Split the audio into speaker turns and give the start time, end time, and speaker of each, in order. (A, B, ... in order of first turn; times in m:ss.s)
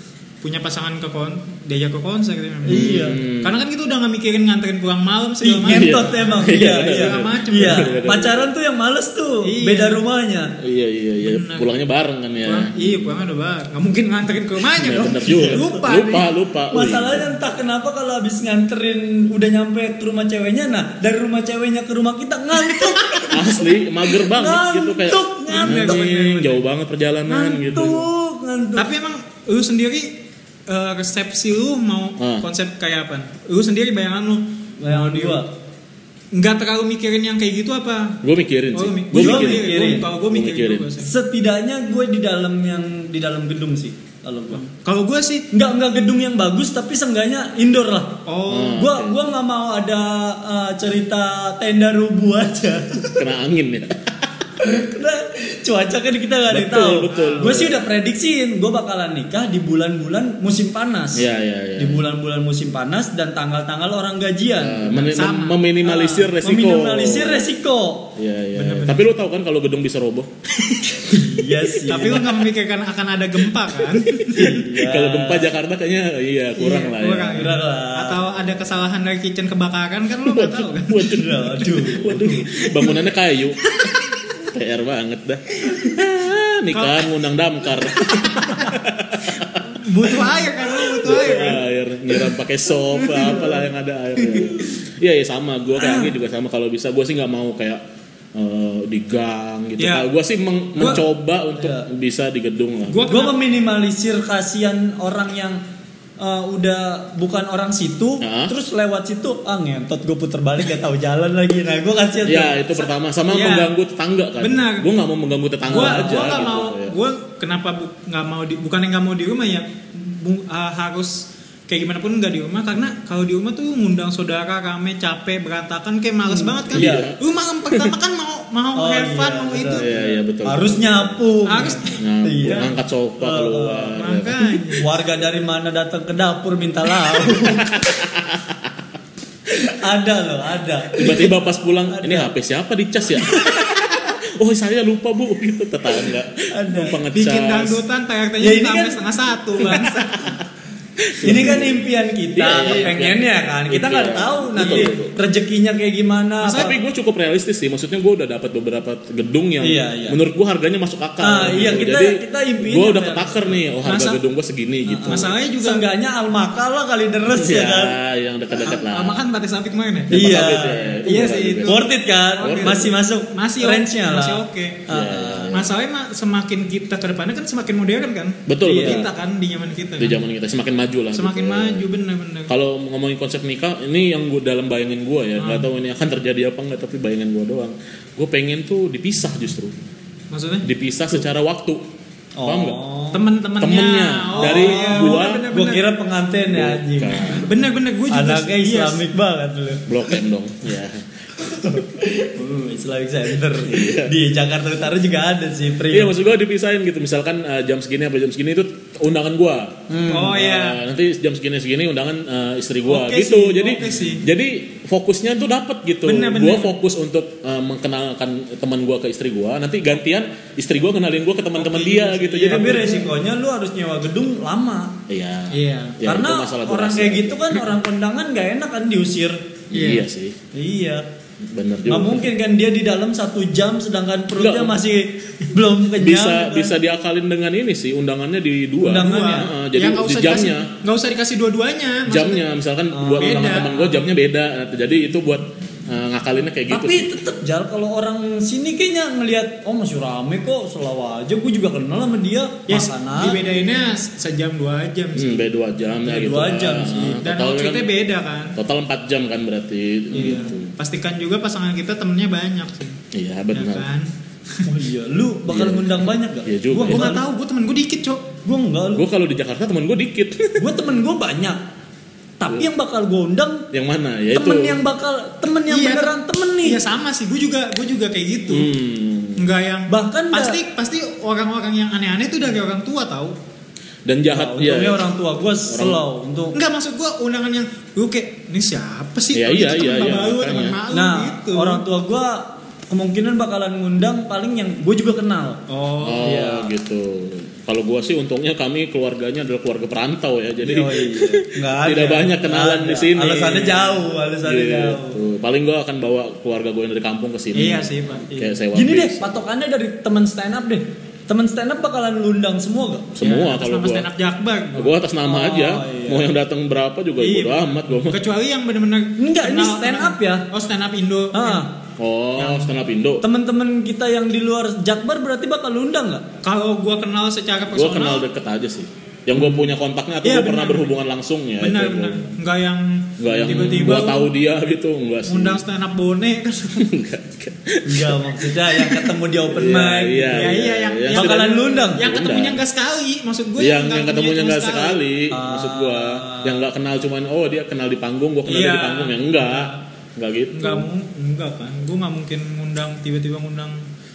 0:00.4-0:08.2 A
0:02.6-0:03.2 B
0:02.7-0:03.6 C
0:05.4-0:10.5 B
0:05.7-0:08.5 C
0:09.4-0:10.0 A
0:10.6-0:13.1 C
0:11.2-0:11.7 A
0:12.4-0:16.3 A
0:14.8-0:17.2 C
0:15.3-0:15.7 B
0:16.7-0:26.3 B
0:22.9-0:23.3 A
0:23.3-0:28.1 C
0:25.5-0:26.6 A
0:27.3-0:28.9 B
0:28.8-0:35.4 A
0:32.2-0:32.4 C
0:34.8-0:35.5 B
0:36.3-0:38.2 A
0:38.2-0:40.9 C
0:38.7-0:41.1 A
0:39.1-0:40.1 B
0:41.0-0:44.6 B
0:44.5-0:45.5 A
0:45.5-0:53.2 B
0:48.3-0:48.8 A
0:48.5-0:49.2 C
0:53.1-0:54.1 C
0:54.6-1:05.2 B
0:56.5-0:57.8 C
0:57.1-0:57.6 A
1:01.1-1:02.0 C
1:04.6-1:07.4 C
1:05.1-1:05.6 A
1:05.8-1:08.2 B
1:08.2-1:10.3 C
1:08.6-1:09.0 A
1:10.7-1:11.2 A
1:11.1-1:12.4 B
1:11.9-1:14.6 A
1:14.2-1:17.5 C
1:14.4-1:15.5 B
1:16.6-1:21.0 A
1:17.3-1:18.2 B
1:20.2-1:29.7 C
1:21.2-1:22.5 B
1:26.7-1:27.1 A
1:28.0-1:28.8 A
1:29.7-1:31.6 A
1:30.8-1:37.8 C
1:33.0-1:33.4 A
1:34.2-1:34.5 A
1:35.8-1:36.1 B
1:38.4-1:43.1 C
1:39.8-1:40.1 A
1:41.6-1:41.8 B
1:42.9-1:43.4 A
1:43.0-1:45.6 B
1:46.2-1:52.7 B
1:48.2-1:48.5 C
1:52.2-1:56.9 C
1:53.3-1:53.7 A
1:54.4-1:54.9 A
1:55.7-1:56.5 B
1:55.7-2:09.9 A
2:06.3-2:07.1 B
2:06.7-2:07.2 C
2:08.8-2:14.0 B
2:09.7-2:11.2 C
2:11.5-2:12.0 A
2:12.0-2:14.4 C
2:14.0-2:14.8 A
2:14.8-2:17.7 B
2:17.3-2:18.6 C
2:19.5-2:22.3 B
2:21.0-2:27.8 C
2:26.5-2:27.0 B
2:27.1-2:30.4 A
2:28.4-2:29.0 B
2:31.0-2:31.8 C
2:31.2-2:36.7 B
2:32.4-2:35.2 C
2:36.4-2:36.7 A
2:36.5-2:45.3 C
2:39.6-2:40.2 B
2:41.2-2:43.6 B
2:43.9-2:44.2 A
2:44.9-2:48.0 B
2:45.1-2:45.8 A
2:47.3-2:49.2 C
2:48.6-2:50.3 A
2:50.1-2:51.0 B
2:50.1-2:51.8 C
2:51.0-2:51.9 A
2:51.6-2:55.6 B
2:52.4-2:54.8 A
2:52.4-2:52.9 C
2:54.9-2:55.7 C
2:55.5-3:00.2 A
2:58.5-2:59.1 C
2:58.6-2:59.1 B
3:00.0-3:01.9 C
3:01.1-3:02.5 A
3:02.5-3:09.8 C
3:05.4-3:05.7 A
3:10.3-3:10.7 A
3:10.6-3:11.8 C
3:12.4-3:13.2 B
3:12.4-3:12.8 C
3:13.1-3:15.9 A
3:13.6-3:15.4 C
3:14.4-3:17.4 B
3:16.5-3:17.5 C
3:17.4-3:19.0 A
3:18.1-3:20.0 B
3:19.9-3:21.0 C
3:21.4-3:26.2 B
3:23.6-3:24.1 C
3:25.9-3:43.0 C
3:29.9-3:30.4 B
3:30.1-3:30.8 A
3:32.9-3:33.8 B
3:33.6-3:34.2 A
3:36.0-3:36.8 A
3:41.6-3:43.0 A
3:42.4-3:45.0 B
3:45.1-3:47.6 C
3:45.5-3:46.0 A
3:46.0-3:49.4 B
3:49.7-3:50.4 C
3:49.7-3:50.0 A
3:50.5-3:51.0 B
3:51.4-3:52.3 C
3:51.9-3:56.7 B
3:54.4-3:54.8 C
3:56.0-4:00.7 C
3:58.8-3:59.5 B
3:59.0-4:02.4 A
4:02.1-4:07.1 C
4:02.9-4:03.8 B
4:03.2-4:03.9 A
4:06.7-4:13.4 B
4:12.7-4:15.5 A
4:15.2-4:17.9 C
4:16.0-4:17.2 B
4:17.2-4:18.5 A
4:18.6-4:20.7 C
4:20.1-4:23.0 A
4:23.1-4:23.9 C
4:23.5-4:24.7 A
4:24.6-4:27.2 B
4:25.5-4:27.2 C
4:26.9-4:28.3 A
4:28.4-4:29.1 B
4:28.9-4:30.7 C
4:30.6-4:31.6 B
4:32.4-4:33.7 B
4:33.7-4:34.8 C
4:34.3-4:36.8 B
4:35.7-4:38.7 A
4:38.5-4:39.4 C
4:39.4-4:43.3 A
4:39.9-4:40.6 B
4:44.1-4:45.0 C
4:44.3-4:46.6 B
4:45.7-4:46.0 C
4:46.5-4:51.8 A
4:49.3-4:50.8 C
4:50.9-4:55.6 B
4:55.7-4:56.4 A
4:56.0-5:09.4 C
4:56.2-4:56.7 B
5:00.6-5:05.2 B
5:07.5-5:08.5 A
5:08.7-5:13.2 B
5:13.2-5:14.1 C
5:13.2-5:14.9 A
5:14.8-5:18.2 C
5:15.2-5:16.3 B
5:17.2-5:21.7 A
5:19.2-5:20.4 B
5:21.3-5:21.7 B
5:22.0-5:23.2 C
5:22.4-5:22.7 A
5:23.2-5:26.2 B
5:26.4-5:28.2 A
5:27.7-5:32.3 C
5:29.4-5:29.7 B
5:30.2-5:31.0 A
5:31.6-5:34.3 A
5:33.2-5:35.6 C
5:33.3-5:34.0 B
5:35.3-5:36.9 A
5:36.8-5:42.6 C
5:37.8-5:40.6 B
5:40.3-5:45.0 A
5:41.1-5:42.0 B
5:43.6-5:50.9 C
5:45.3-5:46.6 B
5:48.5-5:49.8 A
5:50.5-5:53.8 A